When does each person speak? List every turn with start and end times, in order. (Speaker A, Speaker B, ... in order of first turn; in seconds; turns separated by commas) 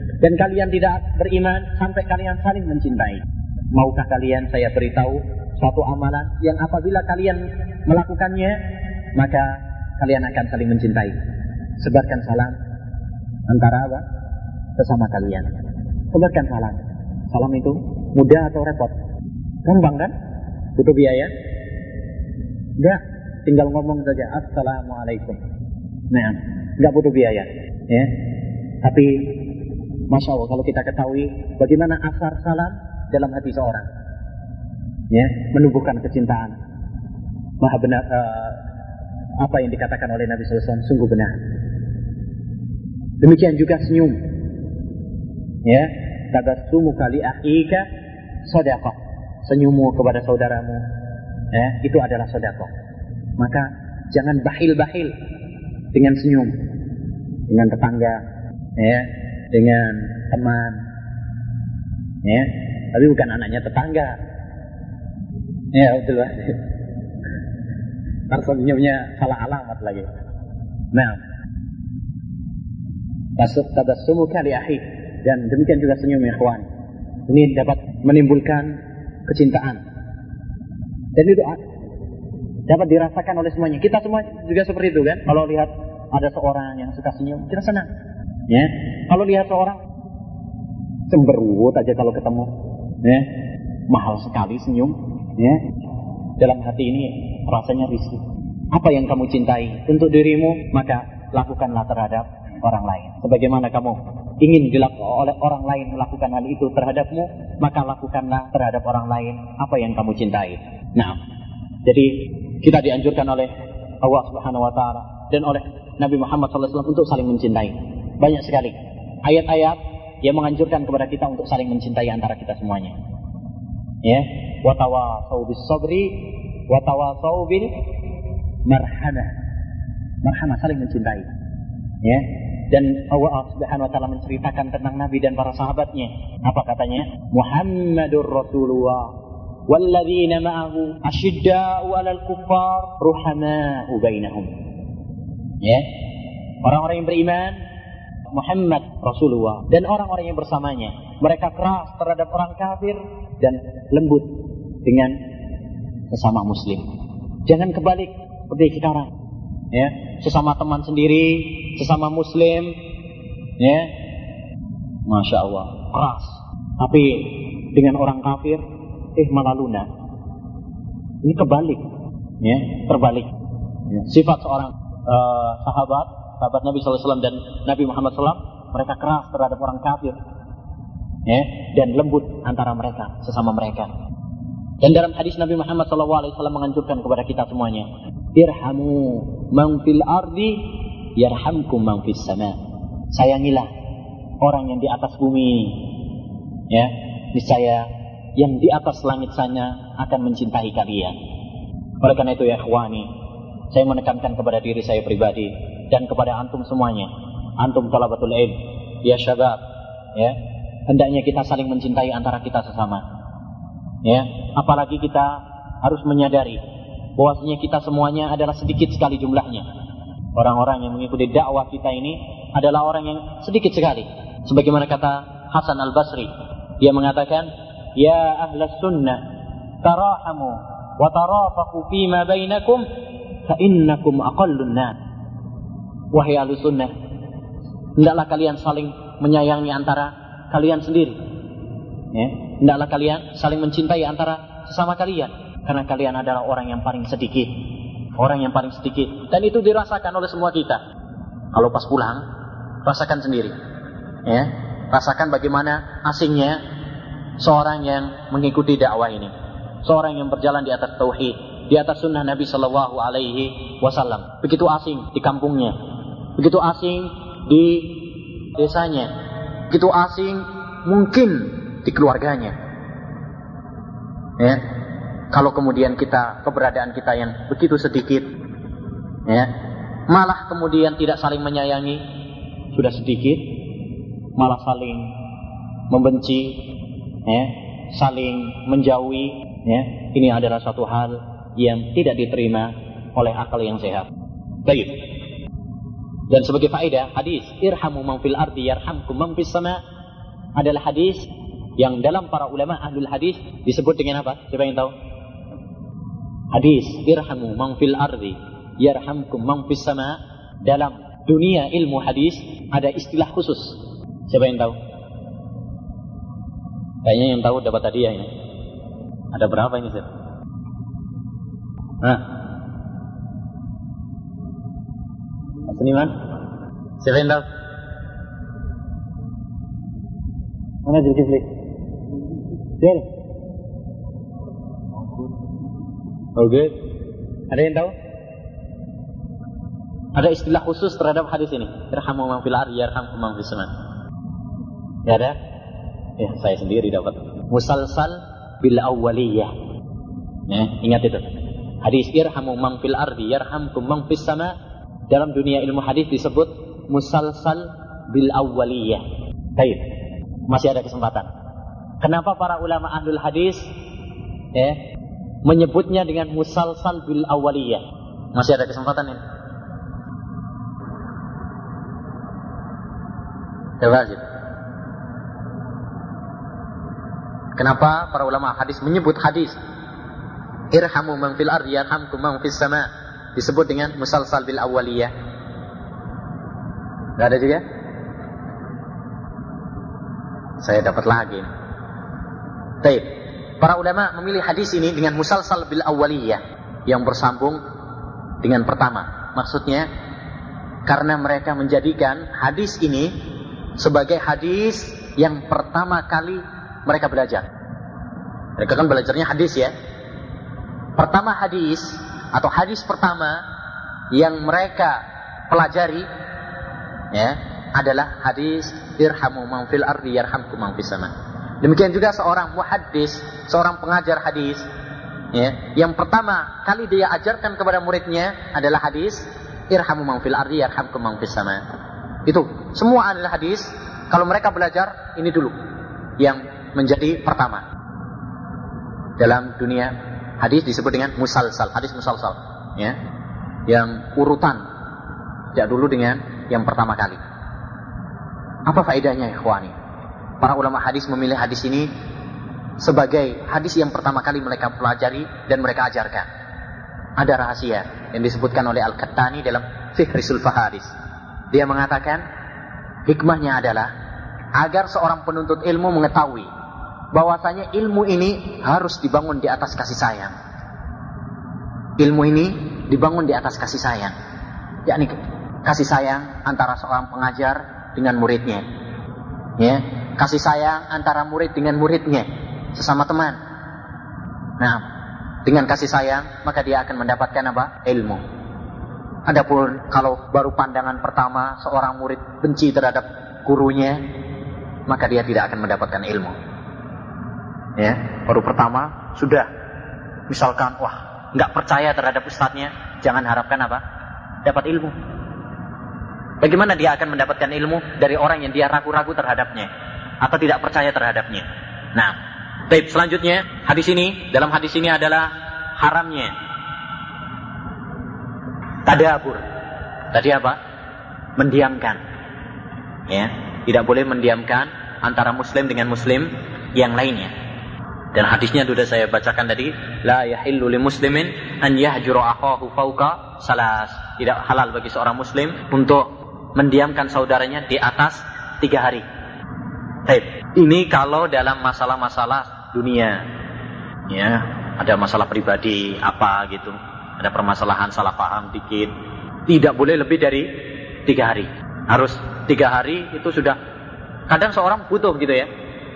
Speaker A: 0.2-8.6, Speaker A: 9.2-11.2, Speaker A: 11.8-12.6, Speaker A: 13.5-14.1, Speaker A: 14.8-15.5, Speaker A: 16.1-18.9, Speaker A: 19.6-20.1, Speaker A: 20.8-21.3, Speaker A: 22.8-25.4, Speaker A: 26.1-28.1, Speaker A: 28.8-29.4, Speaker A: 30.1-33.9, Speaker A: 35.1-36.6, Speaker A: 37.6-38.6, Speaker A: 39.4-41.4, Speaker A: 43.2-44.2, Speaker A: 45.6-47.9, Speaker A: 48.5-50.9, Speaker A: 51.5-52.7, Speaker A: 53.4-55.1, Speaker A: 55.9-56.5, Speaker A: 57.5-58.2, Speaker A: 58.8-60.8, Speaker A: 62.2-64.2, Speaker A: 65.7-66.6, Speaker A: 68.3-70.1, Speaker A: 70.9-71.2, Speaker A: 73.4-76.7, Speaker A: 77.3-79.8, Speaker A: 81.2-81.6, Speaker A: 82.7-87.9, Speaker A: 88.5-89.8, Speaker A: 91.1-93.3, Speaker A: 93.9-95.6, Speaker A: 96.4-111.2, Speaker A: 111.8-123.0, Speaker A: 124.0-127.7, Speaker A: 128.7-129.3, Speaker A: 130.2-131.3, Speaker A: 132.0-139.1, Speaker A: 139.7-144.5, Speaker A: 145.6-145.9, Speaker A: 146.6-147.6, Speaker A: 148.3-154.3, Speaker A: 154.8-155.2, Speaker A: 156.1-156.9, Speaker A: 157.5-159.1, Speaker A: 159.7-162.8, Speaker A: 163.6-163.9, Speaker A: 165.1-168.6, Speaker A: 169.2-169.9, Speaker A: 171.2-171.8, Speaker A: 172.4-173.3, Speaker A: 173.9-180.2, Speaker A: 181.3-183.9, Speaker A: 184.8-192.6, Speaker A: 193.1-193.7, Speaker A: 194.4-195.9, Speaker A: 196.7-201.2, Speaker A: 202.0-203.1, Speaker A: 203.7-209.6, Speaker A: 210.9-213.1, Speaker A: 214.0-216.6, Speaker A: 217.2-219.7, Speaker A: 220.4-226.3, Speaker A: 226.8-229.2, Speaker A: 229.8-232.8, Speaker A: 233.5-235.0, Speaker A: 236.1-236.9, Speaker A: 238.0-241.2, Speaker A: 242.1-250.8, Speaker A: 251.5-252.2, Speaker A: 252.8-253.6, Speaker A: 254.3-256.6, Speaker A: 257.4-259.3, Speaker A: 259.8-265.8, Speaker A: 266.4-269.1, Speaker A: 269.7-272.6, Speaker A: 275.3-278.3, Speaker A: 279.3-279.5, Speaker A: 280.1-282.0, Speaker A: 282.7-283.6, Speaker A: 284.4-285.1, Speaker A: 285.9-286.6, Speaker A: 287.2-294.1, Speaker A: 294.6-295.0, Speaker A: 296.3-299.8, Speaker A: 300.6-304.9, Speaker A: 306.5-314.8, Speaker A: 317.0-318.3, Speaker A: 319.3-320.1, Speaker A: 325.7-326.1, Speaker A: 327.0-327.4, Speaker A: 330.9-331.5, Speaker A: 332.8-333.1, Speaker A: 336.4-336.7, Speaker A: 337.5-337.9, Speaker A: 340.1-343.7, Speaker A: 345.1-345.4, Speaker A: 346.2-349.5, Speaker A: 350.5-354.6, Speaker A: 355.1-359.0, Speaker A: 359.6-359.9, Speaker A: 360.5-361.3, Speaker A: 362.0-363.7, Speaker A: 364.5-364.8, Speaker A: 365.4-369.2, Speaker A: 373.8-374.2, Speaker A: 377.6-379.6, Speaker A: 380.7-385.1, Speaker A: 387.2-387.6, Speaker A: 390.6-391.5, Speaker A: 392.8-397.6, Speaker A: 398.4-399.9, Speaker A: 400.9-403.1, Speaker A: 403.8-407.5, Speaker A: 408.6-409.7, Speaker A: 411.0-413.4, Speaker A: 414.1-416.1, Speaker A: 417.1-424.7, Speaker A: 425.3-431.6, Speaker A: 432.3-435.6, Speaker A: 436.2-437.6, Speaker A: 439.2-443.0, Speaker A: 443.7-444.6, Speaker A: 445.5-447.2, Speaker A: 448.7-449.8, Speaker A: 450.4-451.9, Speaker A: 452.8-456.3, Speaker A: 457.2-460.9, Speaker A: 461.5-462.2, Speaker A: 463.1-463.9, Speaker A: 464.6-466.5, Speaker A: 467.1-470.4, Speaker A: 472.0-474.2, Speaker A: 474.9-478.6, Speaker A: 479.6-483.4, Speaker A: 484.6-484.9, Speaker A: 485.4-488.2, Speaker A: 489.3-494.0, Speaker A: 494.9-496.4, Speaker A: 497.8-499.5, Speaker A: 500.3-503.8, Speaker A: 504.4-504.9, Speaker A: 506.4-509.7, Speaker A: 510.2-512.2, Speaker A: 512.7-516.3, Speaker A: 518.9-519.5, Speaker A: 520.1-520.6, Speaker A: 521.4-522.0, Speaker A: 523.1-527.3, Speaker A: 528.1-539.0, Speaker A: 540.1-543.3, Speaker A: 544.1-548.9, Speaker A: 549.5-550.5, Speaker A: 551.0-553.6, Speaker A: 554.3-555.5